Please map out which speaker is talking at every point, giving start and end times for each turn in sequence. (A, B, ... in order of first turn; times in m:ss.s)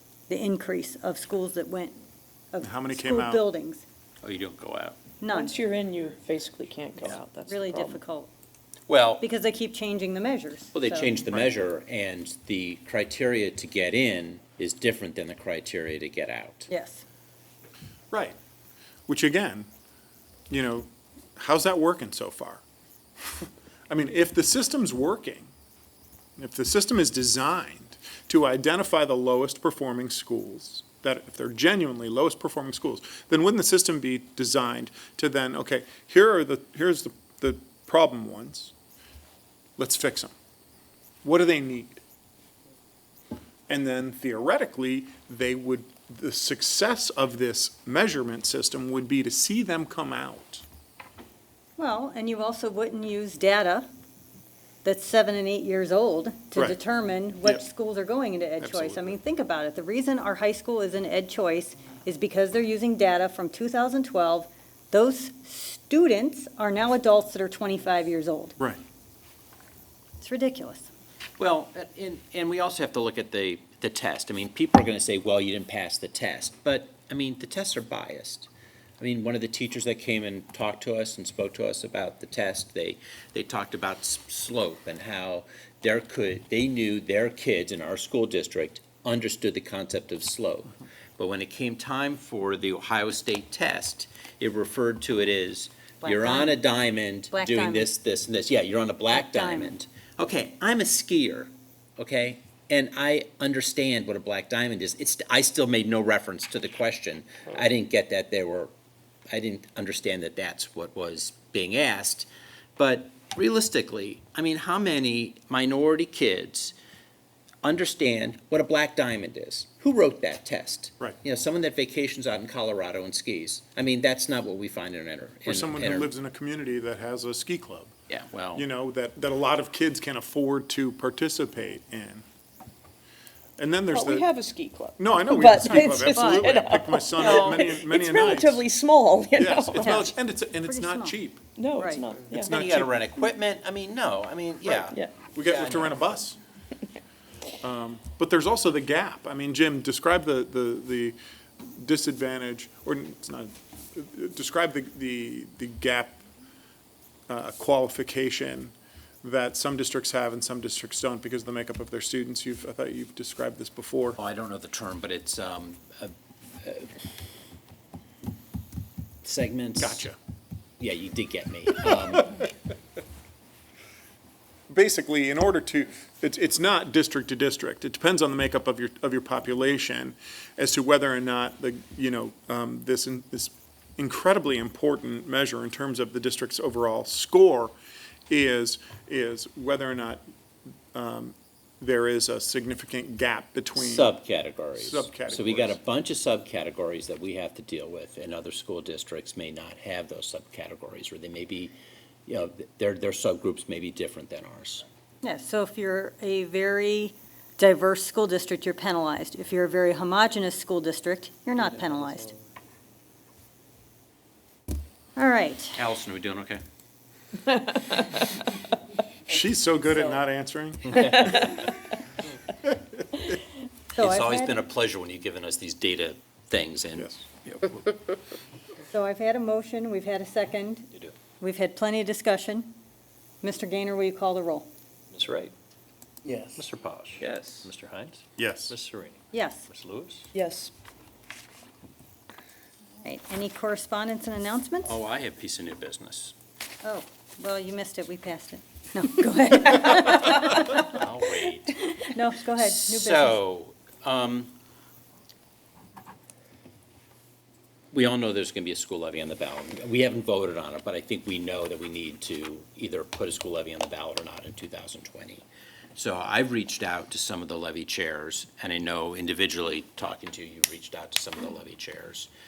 0:00.3-0:02.0 A
0:02.5-0:03.8 A
0:02.6-0:03.4 B
0:04.2-0:05.0 C
0:05.2-0:05.6 A
0:05.3-0:08.0 D
0:07.5-0:08.3 A
0:08.9-0:09.2 C
0:09.2-0:11.1 A
0:10.7-0:16.7 C
0:16.7-0:17.0 A
0:18.1-0:18.4 B
0:19.1-0:19.7 B
0:20.5-0:22.6 B
0:23.4-0:25.5 B
0:26.4-0:38.7 B
0:39.8-0:40.3 B
0:41.2-0:42.0 B
0:43.7-0:50.6 B
0:51.8-0:53.9 A
0:54.8-1:08.6 A
0:58.6-0:59.2 B
1:10.2-1:10.9 A
1:11.4-1:48.7 C
1:36.0-1:36.6 A
1:37.3-1:37.9 A
1:39.1-1:39.8 A
1:49.3-1:56.8 C
1:57.6-2:06.1 C
2:05.5-2:07.9 B
2:08.1-2:08.6 C
2:08.5-2:12.2 B
2:13.6-2:14.3 B
2:13.9-2:20.1 D
2:15.0-2:18.7 B
2:16.0-2:16.5 A
2:19.4-2:21.4 B
2:19.8-2:21.2 A
2:21.6-2:22.6 D
2:21.8-2:22.1 A
2:22.3-2:22.9 B
2:22.4-2:26.1 C
2:24.6-2:26.4 B
2:27.6-2:36.2 B
2:37.3-2:44.2 B
2:44.2-2:46.9 C
2:49.2-2:50.0 C
2:49.8-2:50.2 B
2:50.8-2:52.5 C
2:54.7-3:07.8 B
3:08.3-3:10.2 B
3:10.9-3:14.1 B
3:13.8-3:21.7 C
3:14.8-3:15.8 B
3:22.3-3:24.8 C
3:25.2-3:32.4 A
3:35.2-3:35.8 A
3:35.8-3:36.6 C
3:39.3-3:41.5 B
3:40.9-3:41.5 C
3:44.0-3:44.6 A
3:44.0-3:47.8 C
3:48.9-3:50.9 A
3:51.4-3:52.7 A
3:53.4-3:54.7 A
3:55.1-3:55.5 E
3:56.3-3:58.0 C
3:56.5-3:59.2 E
3:58.4-3:58.7 B
3:59.3-3:59.7 A
3:59.7-4:00.0 C
3:59.7-4:00.2 E
4:00.3-4:00.7 D
4:03.0-4:05.0 A
4:04.8-4:06.3 C
4:06.8-4:10.8 A
4:10.7-4:11.9 C
4:11.9-4:13.4 A
4:12.6-4:14.5 C
4:17.9-4:25.4 C
4:26.0-4:32.3 C